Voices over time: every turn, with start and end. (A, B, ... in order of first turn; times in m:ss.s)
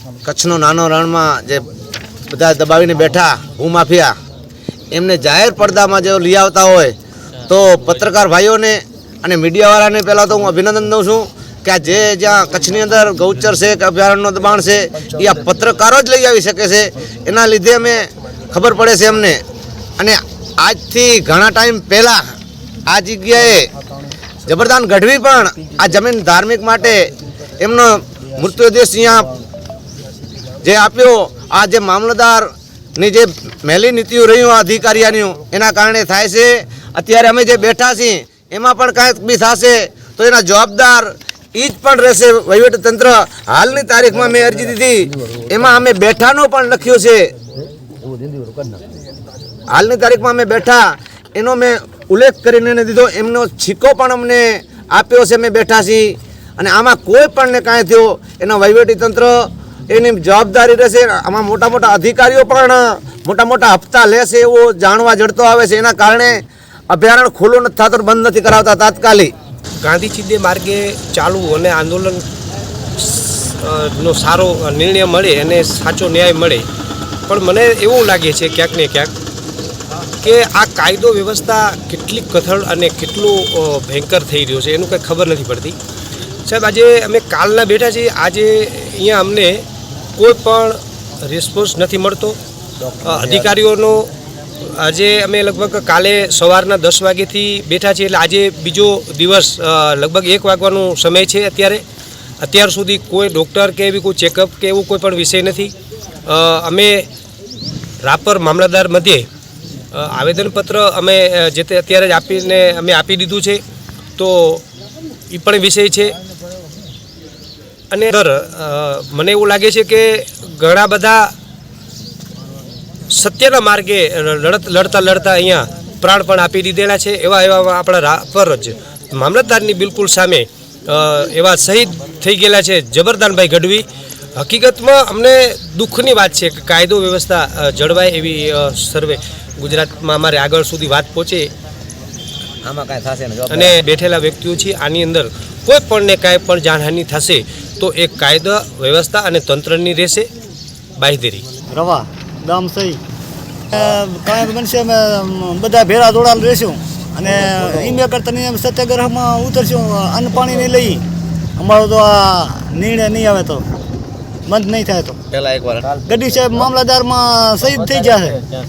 0:00.2-0:01.6 A
0:02.3-0:04.1 A
0:04.9-0:19.4 A
0:20.0-0:22.2 A
0:22.9-0:23.7 A
0:24.4-0:27.1 A
0:27.6-0:29.3 A
0:30.6-0:47.3 A
0:49.7-1:09.3 A
1:09.8-1:12.2 B
1:13.0-1:16.7 B
1:17.3-1:19.1 B
1:20.2-1:25.8 B
1:26.5-1:29.6 B
1:30.2-1:32.4 B
1:33.0-1:34.1 B
1:34.6-1:41.8 B
1:42.4-1:45.7 B
1:46.2-1:47.1 B
1:48.0-1:49.3 B
1:49.9-1:53.6 B
1:54.2-1:54.6 B
1:55.3-1:56.1 B
1:57.9-2:01.3 B
2:03.1-2:13.9 B
2:14.4-2:21.5 B
2:22.6-2:23.8 A
2:23.5-2:30.3 B
2:31.0-2:31.4 B
2:31.7-2:33.0 C
2:33.7-2:41.0 C
2:41.6-2:43.6 C
2:44.5-2:45.2 C
2:45.3-2:46.0 A
2:46.0-2:48.4 C